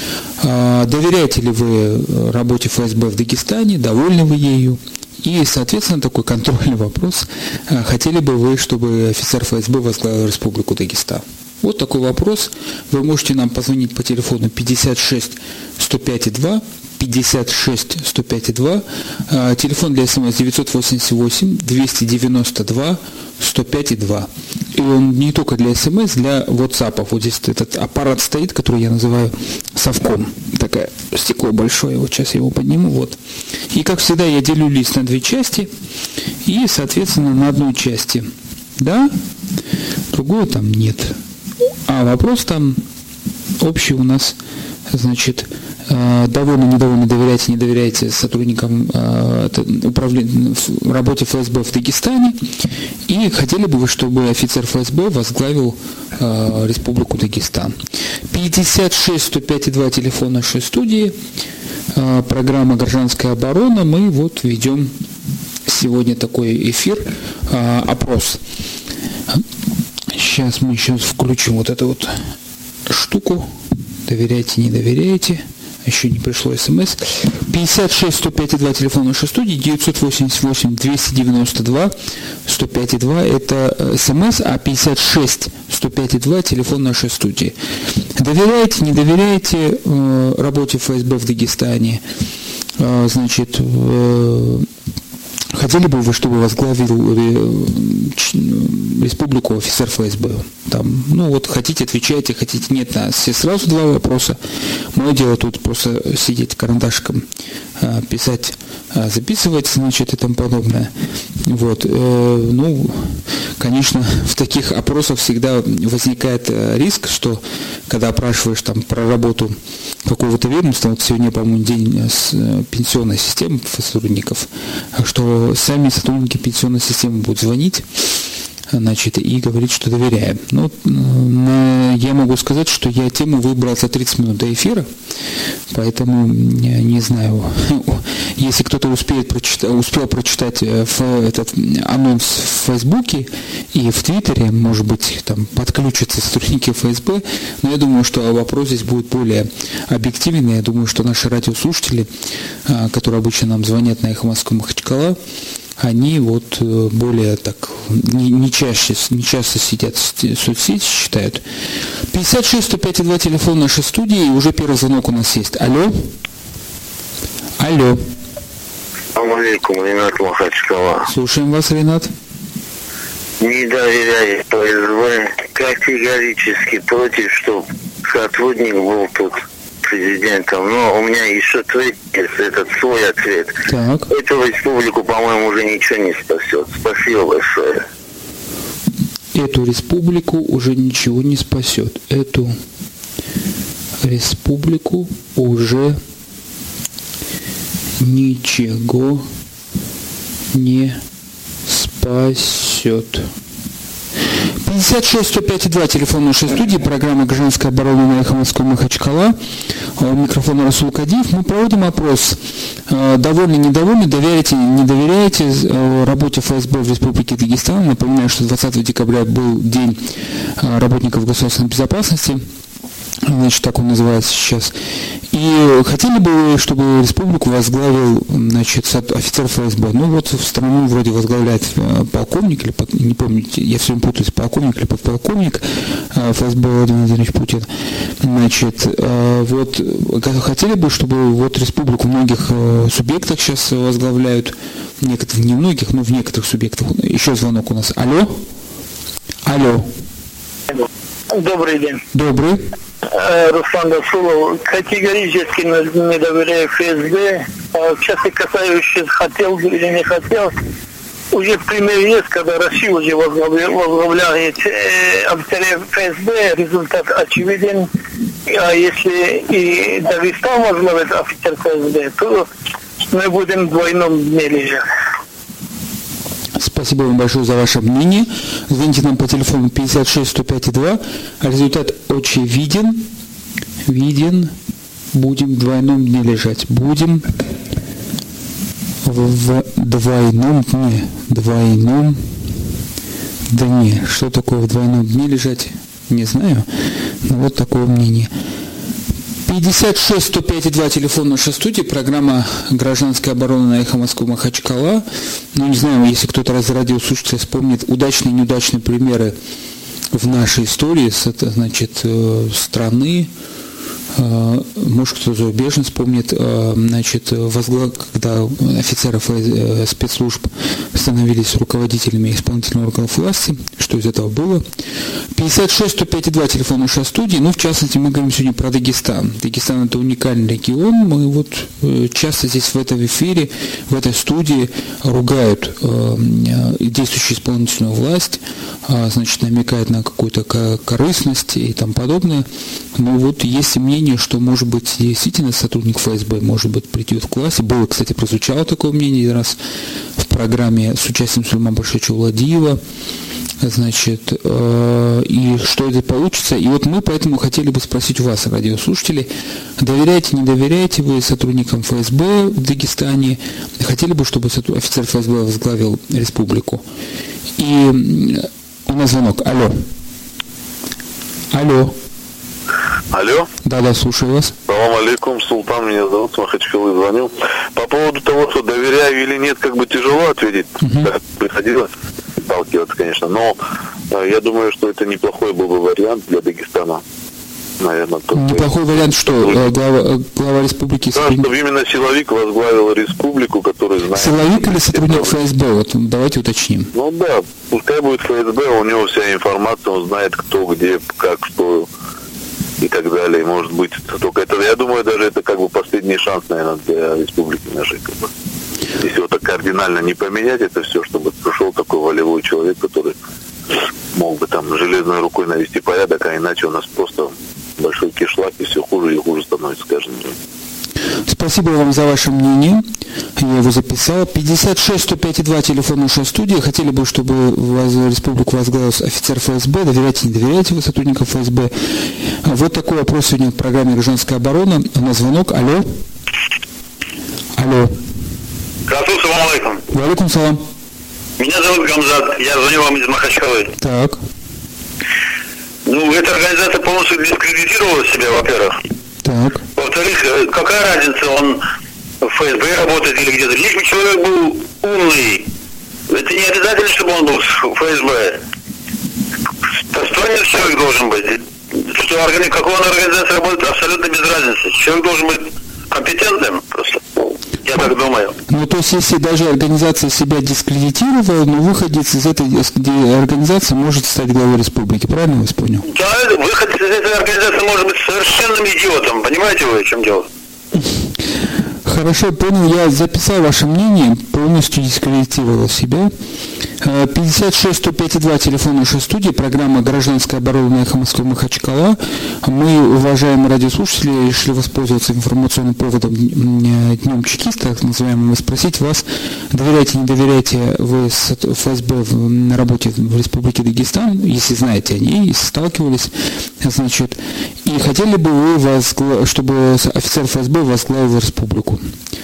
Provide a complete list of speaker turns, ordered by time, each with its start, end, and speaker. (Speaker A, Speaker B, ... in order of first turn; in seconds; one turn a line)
Speaker A: 0.4-33.2
Speaker A: 33.7-35.7
Speaker A: 36.4-39.1
Speaker A: 40.1-41.2
Speaker A: 41.9-42.8
Speaker A: 43.6-44.4
Speaker A: 44.9-52.4
Speaker A: 53.1-57.7
Speaker A: 58.3-61.1
Speaker A: 61.9-64.9
Speaker A: 65.7-68.4
Speaker A: 70.1-72.1
Speaker A: 72.9-73.5
Speaker A: 74.0-81.9
Speaker A: 82.5-87.5
Speaker A: 88.2-92.0
Speaker A: 92.8-94.7
Speaker A: 95.5-104.4
Speaker A: 104.9-107.2
Speaker A: 107.8-110.9
Speaker A: 111.5-127.8
Speaker A: 128.7-134.9
Speaker A: 135.7-152.1
Speaker A: 152.7-155.2
Speaker A: 155.8-161.4
Speaker A: 162.1-166.1
Speaker A: 167.6-168.0
Speaker B: 169.2-171.0
Speaker A: 171.1-172.1
Speaker B: 173.4-183.5
Speaker A: 183.7-184.1
Speaker B: 184.1-187.8
Speaker A: 189.3-192.6
Speaker A: 194.0-196.0
Speaker A: 198.0-199.2
Speaker A: 200.5-201.0
Speaker A: 201.7-203.3
Speaker A: 204.6-209.3
Speaker A: 210.0-220.0
Speaker A: 220.6-222.4
Speaker A: 223.2-224.7
Speaker A: 225.3-237.7
Speaker A: 238.2-248.4
Speaker A: 249.4-249.8
Speaker C: 251.3-252.0
Speaker A: 252.1-252.6
Speaker C: 253.1-260.5
Speaker C: 261.3-267.9
Speaker C: 268.5-272.5
Speaker C: 273.1-274.8
Speaker A: 276.6-283.1
Speaker A: 283.9-284.5
Speaker A: 285.1-287.3
Speaker A: 289.0-292.2
Speaker A: 293.5-296.6
Speaker A: 297.2-298.3
Speaker A: 299.5-309.3
Speaker A: 310.1-313.3
Speaker A: 314.1-324.6
Speaker A: 325.3-349.6
Speaker A: 350.2-352.8
Speaker A: 353.6-366.8
Speaker A: 367.6-369.8
Speaker A: 371.5-371.9
Speaker D: 373.1-373.5
Speaker A: 373.6-374.5
Speaker D: 374.7-381.9
Speaker A: 380.8-381.1
Speaker D: 382.4-383.6
Speaker D: 384.1-387.0
Speaker D: 387.8-388.7
Speaker A: 388.3-391.5
Speaker D: 391.1-395.3
Speaker A: 394.1-396.9
Speaker D: 396.9-401.9
Speaker D: 402.8-408.3
Speaker D: 409.0-413.2
Speaker D: 414.1-420.4
Speaker A: 421.3-422.9
Speaker A: 423.4-431.7
Speaker A: 432.4-435.9
Speaker A: 437.6-437.9
Speaker E: 438.9-439.8
Speaker A: 439.9-440.6
Speaker E: 441.4-443.7
Speaker A: 443.8-444.2
Speaker E: 445.9-448.8
Speaker A: 449.2-449.6
Speaker E: 449.8-451.6
Speaker E: 452.2-455.5
Speaker E: 456.1-458.4
Speaker E: 459.9-467.0
Speaker E: 467.6-468.3
Speaker A: 468.5-475.8
Speaker E: 475.8-480.2
Speaker A: 481.8-486.1
Speaker A: 486.8-511.8